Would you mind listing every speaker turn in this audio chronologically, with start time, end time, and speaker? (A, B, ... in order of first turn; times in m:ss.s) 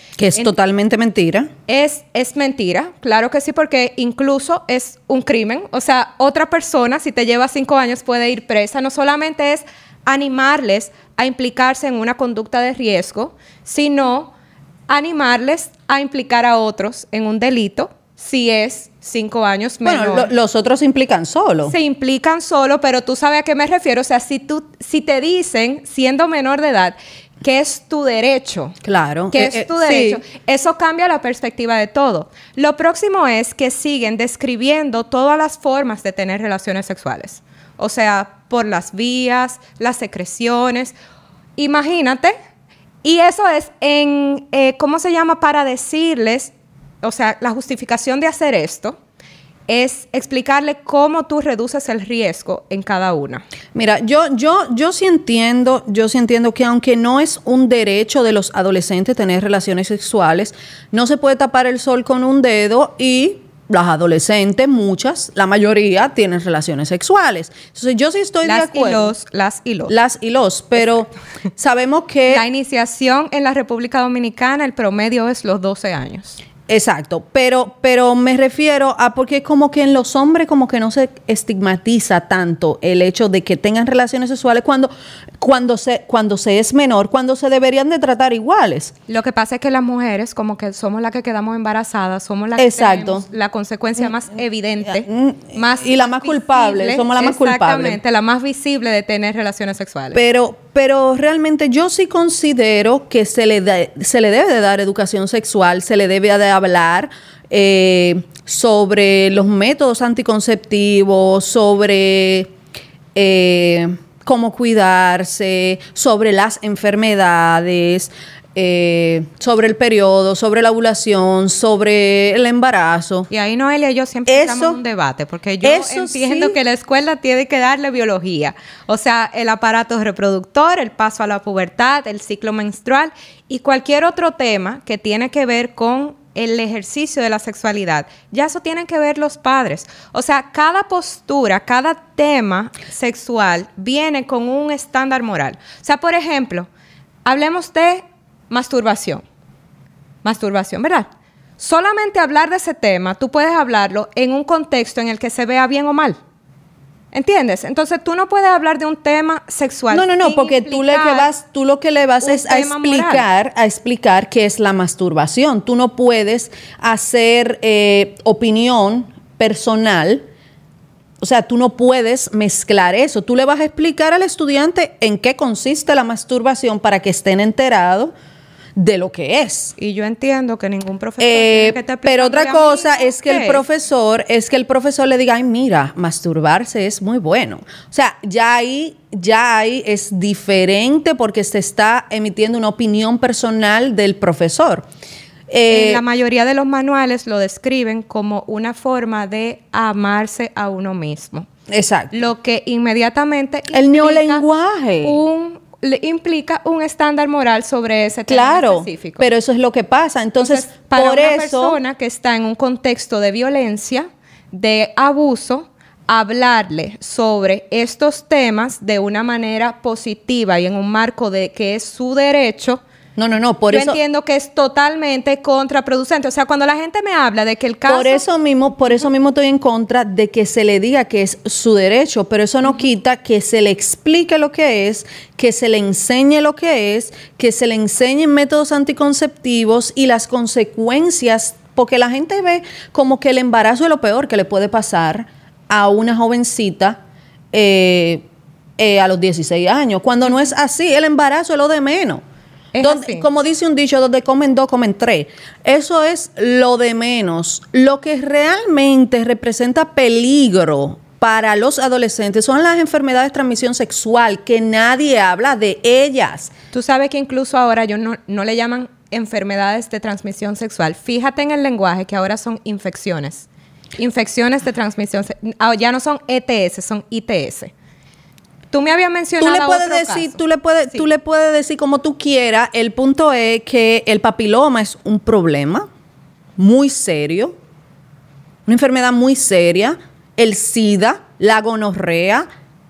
0:00.2-0:01.5 A
0:01.7-0:14.3 B
0:14.9-0:20.3 B
0:19.8-0:21.7 A
0:21.6-0:28.8 B
0:28.8-0:30.2 A
0:29.3-0:40.9 B
0:41.6-0:42.4 B
0:43.0-0:49.0 B
0:49.7-0:53.4 B
0:53.7-1:09.1 A
1:08.4-1:09.9 B
1:09.9-1:12.4 A
1:12.3-1:16.4 B
1:16.7-1:28.9 A
1:29.1-1:40.2 B
1:32.6-1:33.2 A
1:34.8-1:38.0 A
1:40.1-1:52.5 A
1:53.1-2:03.3 A
2:03.3-2:26.7 B
2:04.2-2:04.8 A
2:05.6-2:06.6 A
2:27.2-2:29.2 B
2:30.2-2:31.1 B
2:31.6-2:36.2 B
2:37.1-2:41.3 B
2:39.9-2:50.3 A
2:42.2-2:43.2 B
2:51.2-2:58.1 A
2:58.8-2:59.7 A
2:59.8-3:03.6 B
3:01.2-3:14.8 A
3:15.5-3:16.0 A
3:15.7-3:21.5 B
3:21.7-3:22.1 A
3:22.1-3:24.4 B
3:23.7-3:25.2 A
3:25.0-3:29.2 B
3:28.3-3:31.8 A
3:30.4-3:42.8 B
3:43.2-3:44.0 A
3:43.7-3:48.2 B
3:47.9-4:07.0 A
4:07.5-4:08.2 A
4:08.8-4:12.2 A
4:12.7-4:13.2 B
4:12.8-4:26.5 A
4:26.7-4:33.5 B
4:34.0-4:37.7 B
4:38.7-4:40.4 B
4:39.4-4:45.9 A
4:46.6-4:47.6 A
4:48.7-4:52.5 A